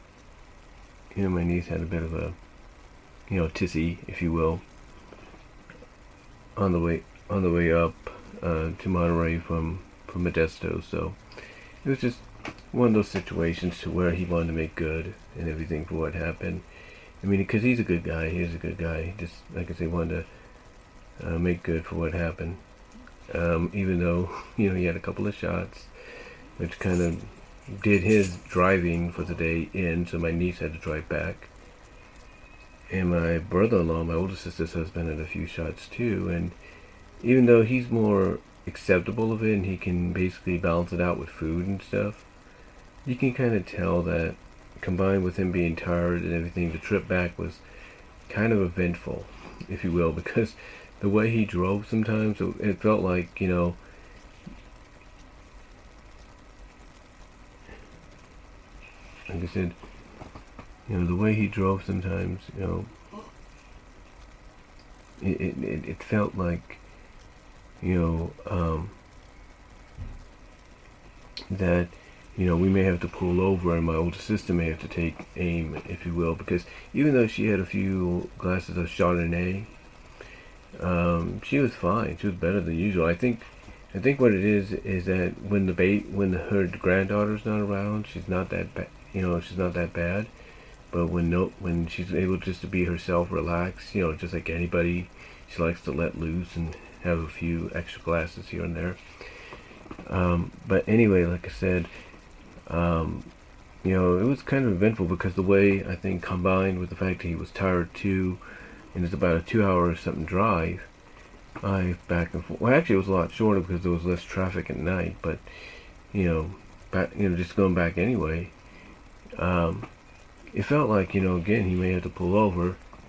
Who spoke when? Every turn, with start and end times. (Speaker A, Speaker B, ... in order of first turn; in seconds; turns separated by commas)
Speaker A: 1.1-2.4, Speaker A: 3.3-4.6, Speaker A: 6.6-11.2, Speaker A: 11.8-16.6, Speaker A: 17.2-20.3, Speaker A: 21.2-22.6, Speaker A: 23.3-25.9, Speaker A: 26.6-31.5, Speaker A: 32.9-36.6, Speaker A: 37.2-42.3, Speaker A: 43.0-47.6, Speaker A: 48.3-53.8, Speaker A: 59.3-59.8, Speaker A: 60.9-62.9, Speaker A: 65.2-66.8, Speaker A: 67.8-69.0, Speaker A: 71.5-79.7, Speaker A: 80.8-90.3, Speaker A: 90.9-99.0, Speaker A: 100.0-101.9, Speaker A: 102.7-103.3, Speaker A: 103.8-108.4, Speaker A: 108.9-110.9, Speaker A: 111.6-115.4, Speaker A: 116.1-118.5, Speaker A: 119.4-119.9, Speaker A: 120.5-122.8